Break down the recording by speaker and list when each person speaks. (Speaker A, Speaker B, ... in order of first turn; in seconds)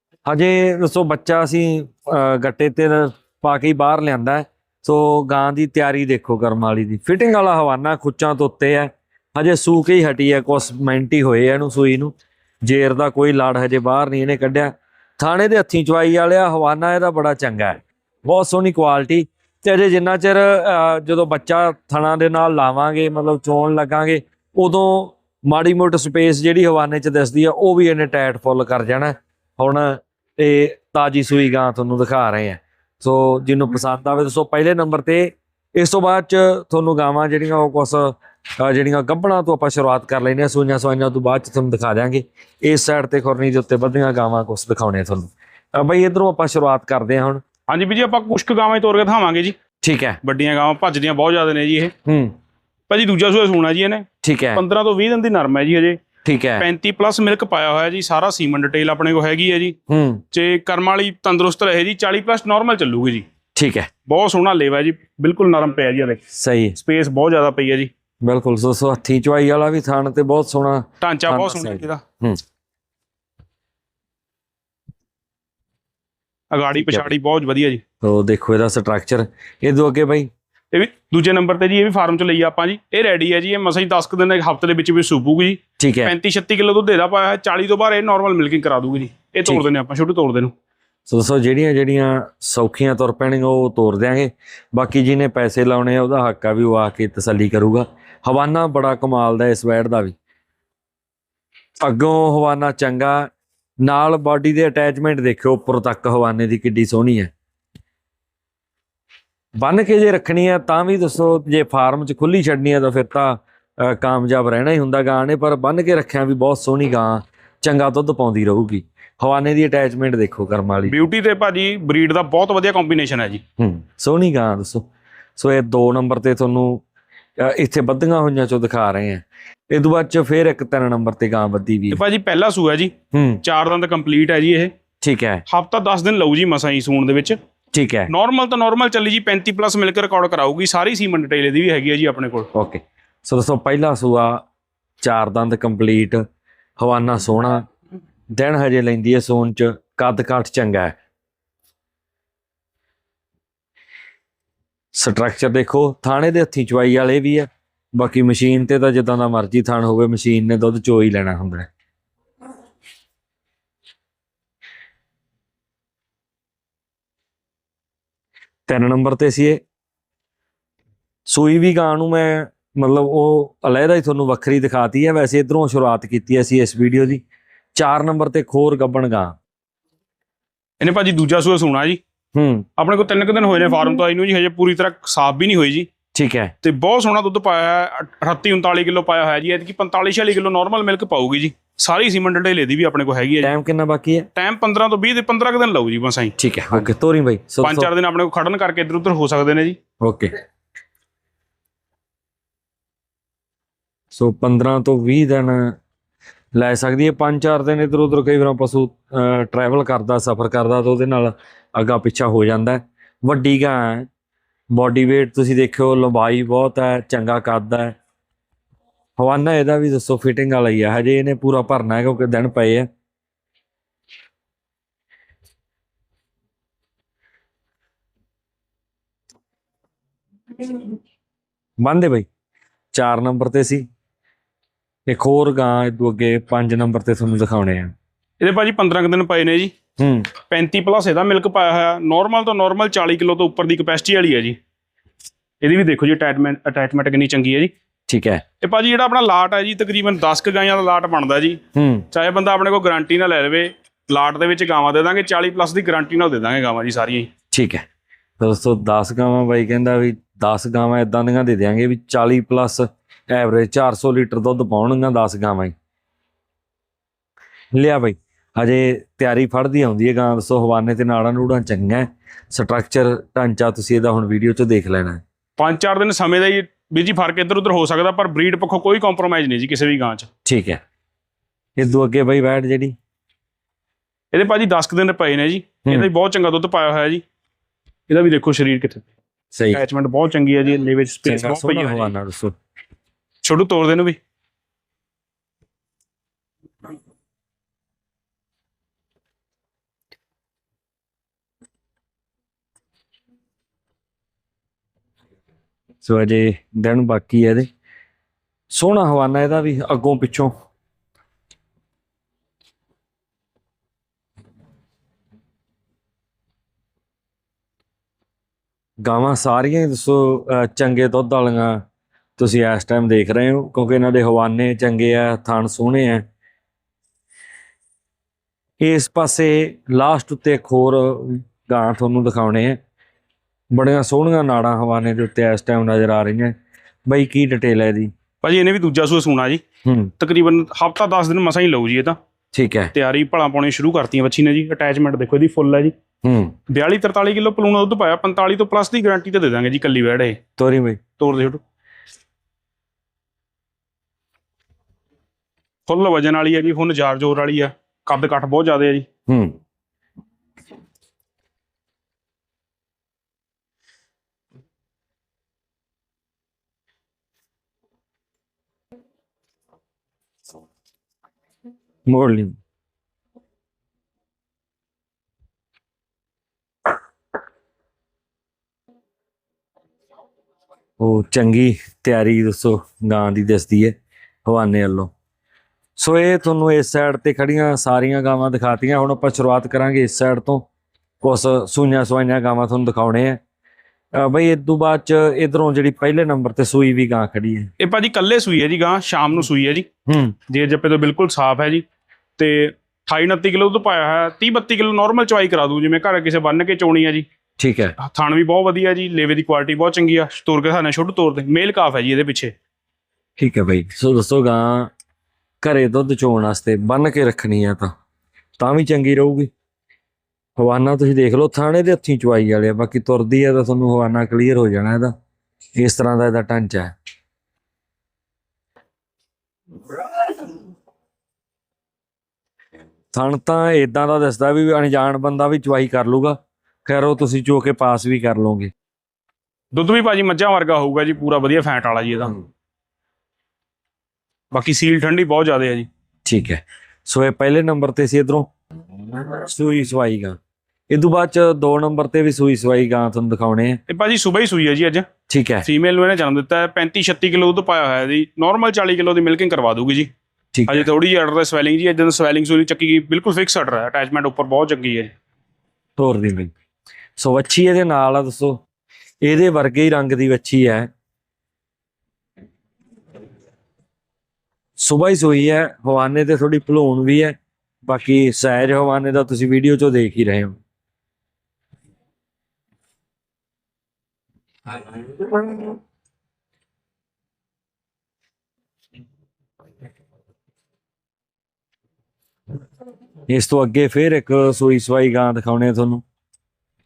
Speaker A: 0.3-47.4, 49.8-50.2, 52.0-52.4, 54.2-54.6, 56.2-56.7, 59.9-60.2, 63.6-63.9, 66.3-66.8, 68.2-72.4, 76.8-77.1, 78.0-80.3, 85.8-86.1, 91.1-100.2, 101.8-103.3, 103.8-107.3, 109.6-121.0, 123.6-124.9, 125.4-126.8, 127.4-132.0, 133.1-133.4, 135.0-135.4, 137.7-138.1, 142.5-144.4, 145.0-146.2, 146.8-147.7, 148.3-150.9, 154.9-161.7, 168.7-169.6, 171.3-177.2, 177.8-179.4, 182.3-182.7, 186.1-186.5, 193.4-194.3, 196.4-197.9, 200.0-200.3, 204.1-205.8, 206.6-214.1, 214.7-217.9, 219.2-222.9, 231.8-232.3, 232.9-233.9, 235.1-237.9, 240.0-240.3, 248.1-248.4, 251.7-252.1, 257.5-257.8, 258.4-265.7, 267.7-275.2, 280.4-280.8, 281.8-283.0, 289.5-289.8, 291.2-292.6, 306.0-307.7, 308.7-310.5, 319.0-321.8, 322.4-326.2, 328.8-332.8, 333.7-336.5, 337.1-338.1, 339.9-340.1, 342.5-342.9, 346.2-346.6, 350.6-351.0, 359.3-359.6, 372.1-372.6, 381.0-385.1, 386.0-390.7, 391.2-393.4, 394.1-397.7, 400.1-400.4, 407.6-408.0, 413.4-414.9, 415.6-417.9, 418.6-419.5, 420.6-425.1, 425.8-426.9, 433.1-438.7, 446.3-448.5, 449.3-450.4, 450.9-453.8, 455.3-455.7, 460.5-460.9, 466.0-466.5, 467.2-468.6, 469.2-470.9, 474.8-480.6, 485.1-485.8, 493.3-496.0
Speaker B: 47.7-49.6, 50.2-51.9, 52.9-56.0, 56.6-59.8, 60.3-63.3, 64.1-66.2, 66.8-67.9, 71.0-72.0, 76.5-77.8, 80.7-90.5, 120.9-123.4, 131.9-134.7, 135.5-137.4, 138.1-142.5, 180.8-182.0, 182.8-185.9, 186.6-193.5, 194.4-196.9, 197.6-199.8, 238.4-239.7, 240.5-244.6, 245.6-247.7, 248.6-257.3, 275.6-280.3, 284.3-287.2, 288.1-289.1, 289.7-292.1, 293.4-294.2, 338.4-339.6, 340.2-342.2, 342.9-345.9, 346.7-350.4, 351.2-351.6, 355.9-359.1, 397.8-399.9, 400.5-401.8, 402.4-407.3, 408.0-412.5, 439.7-442.4, 444.5-445.9, 453.9-455.1, 455.6-460.1, 460.7-465.1